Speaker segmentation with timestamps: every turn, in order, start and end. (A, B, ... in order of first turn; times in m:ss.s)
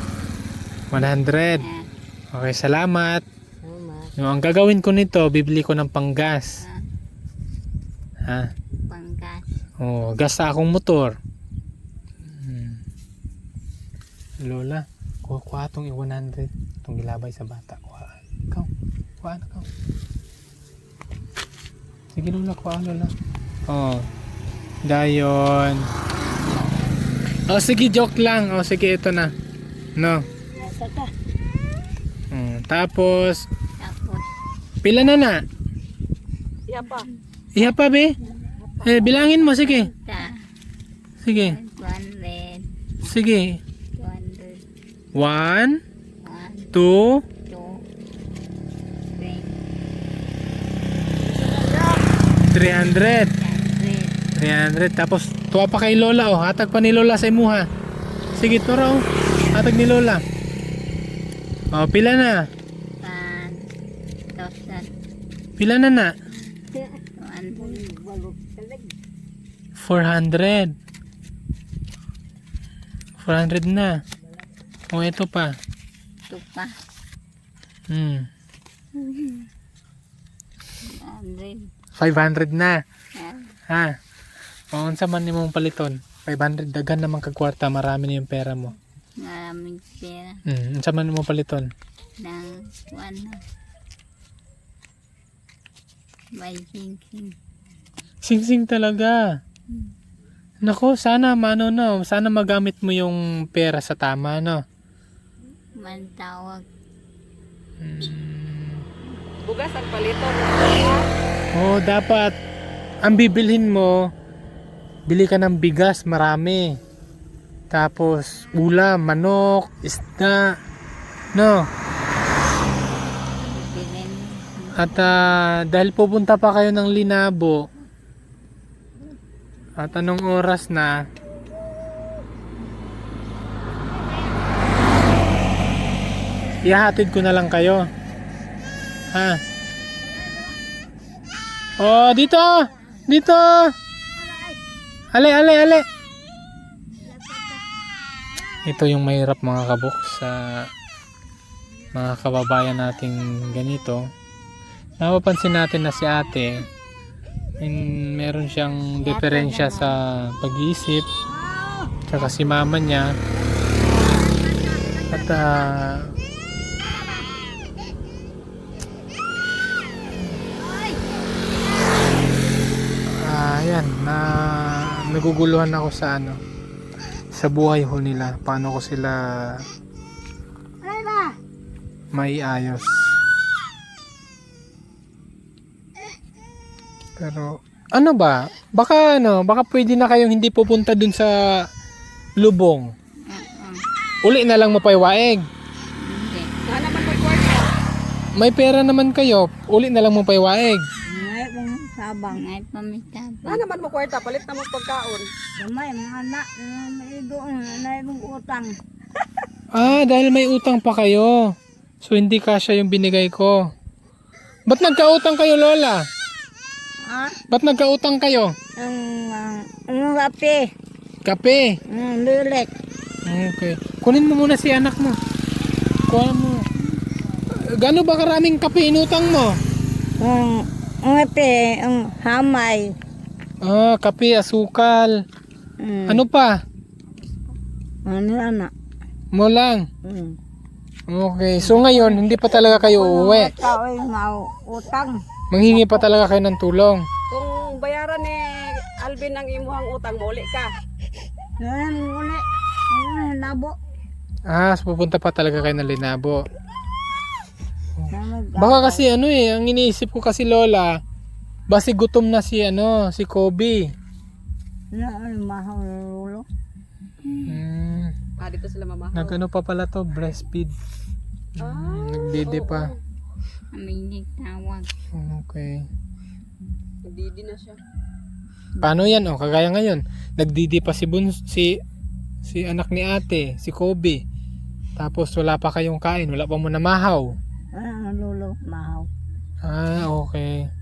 0:00.9-0:01.6 A
0:01.6-0:01.9 B
0:02.3-0:03.2 A
0:03.6-0:04.1 C
0:04.2-0:06.6 A
0:06.6-0:06.9 B
0:08.2-0:08.5 A
0:08.9-0:09.5 B
0:09.8-0:11.2 A
0:12.2-0:12.8 A
0:14.4-0:18.7 A
0:19.2-0:19.7 A
0:22.1-0:23.1 A
0:23.7-0:24.1 A
0:24.8-0:25.9 A
0:27.5-0:29.3 A
0:30.0-0:30.2 A
0:30.5-0:31.1 C
0:32.3-0:33.5 A
0:33.8-0:34.3 B
0:34.8-0:35.4 A
0:36.7-0:37.1 D
0:37.5-0:38.2 A
0:38.8-0:39.9 A
0:39.2-0:40.4 B
0:41.2-0:41.6 A
0:41.3-0:42.7 B
0:43.0-0:43.6 A
0:44.0-0:44.6 B
0:45.1-0:45.8 A
0:46.2-0:46.7 B
0:46.7-0:47.2 A
0:47.4-0:47.8 B
0:49.2-0:49.6 B
0:52.5-0:53.3 A
0:53.4-0:54.2 B
0:54.4-0:57.7 A
0:58.3-1:00.2 A
1:01.7-1:02.5 A
1:03.0-1:03.7 B
1:04.3-1:04.9 B
1:05.6-1:06.1 A
1:07.2-1:07.8 B
1:07.6-1:08.9 C
1:09.8-1:10.7 A
1:13.2-1:14.0 A
1:14.9-1:15.6 A
1:16.3-1:16.8 B
1:17.9-1:18.3 A
1:19.0-1:19.5 B
1:20.8-1:21.7 B
1:22.0-1:22.8 A
1:23.2-1:23.6 B
1:23.7-1:24.0 A
1:24.7-1:28.7 A
1:29.2-1:30.4 B
1:30.4-1:31.7 A
1:32.2-1:33.4 B
1:36.3-1:37.4 B
1:38.2-1:39.4 A
1:40.6-1:44.6 A
1:45.8-1:46.6 B
1:47.8-1:48.9 A
1:49.4-1:51.1 D
1:51.5-1:52.3 A
1:53.0-1:54.1 A
1:55.1-1:56.8 A
1:57.7-2:00.6 A
2:01.3-2:01.7 A
2:03.4-2:05.2 B
2:04.8-2:07.7 A
2:09.8-2:11.0 A
2:16.6-2:17.9 A
2:19.1-2:19.4 A
2:21.8-2:23.7 A
2:24.2-2:24.6 C
2:25.1-2:25.8 A
2:28.6-2:30.7 A
2:31.9-2:34.1 A
2:35.0-2:36.7 A
2:37.6-2:41.0 A
2:39.0-2:40.0 B
2:41.2-2:42.0 C
2:42.1-2:43.2 A
2:43.8-2:45.0 C
2:45.1-2:46.1 A
2:50.7-2:51.0 C
2:53.1-2:56.4 A
2:57.3-2:59.6 A
3:00.8-3:01.4 C
3:02.1-3:03.2 A
3:07.2-3:11.7 A
3:12.4-3:12.9 A
3:13.3-3:13.8 B
3:14.2-3:15.5 A
3:16.0-3:16.5 B
3:16.7-3:17.7 D
3:18.3-3:20.8 A
3:21.1-3:22.4 C
3:22.3-3:23.6 B
3:23.4-3:25.3 D
3:25.6-3:28.8 C
3:29.7-3:33.7 A
3:34.7-3:36.1 A
3:37.0-3:37.4 C
3:37.5-3:38.5 A
3:38.8-3:40.7 C
3:41.2-3:41.8 A
3:41.9-3:42.7 C
3:43.2-3:45.2 A
3:46.1-3:46.7 A
3:47.7-3:49.6 A
3:50.2-3:52.9 C
3:53.6-3:55.2 A
3:55.8-3:56.2 C
3:56.1-3:56.6 A
3:58.0-3:58.7 C
3:59.3-3:59.9 A
4:00.0-4:00.4 C
4:01.1-4:03.5 A
4:01.6-4:06.0 C
4:05.5-4:07.1 A
4:07.3-4:10.7 D
4:11.6-4:13.8 C
4:14.4-4:16.5 A
4:18.0-4:21.0 A
4:18.1-4:19.1 C
4:21.7-4:23.9 A
4:24.9-4:26.4 C
4:27.3-4:27.6 B
4:27.4-4:28.2 A
4:28.4-4:29.4 D
4:29.1-4:30.8 A
4:31.6-4:32.9 A
4:31.6-4:33.0 D
4:33.7-4:34.9 B
4:35.1-4:35.9 A
4:37.0-4:37.8 D
4:38.8-4:39.1 C
4:38.8-4:41.8 A
4:42.4-4:44.2 A
4:45.0-4:47.4 A
4:47.7-4:49.1 C
4:49.6-4:50.7 A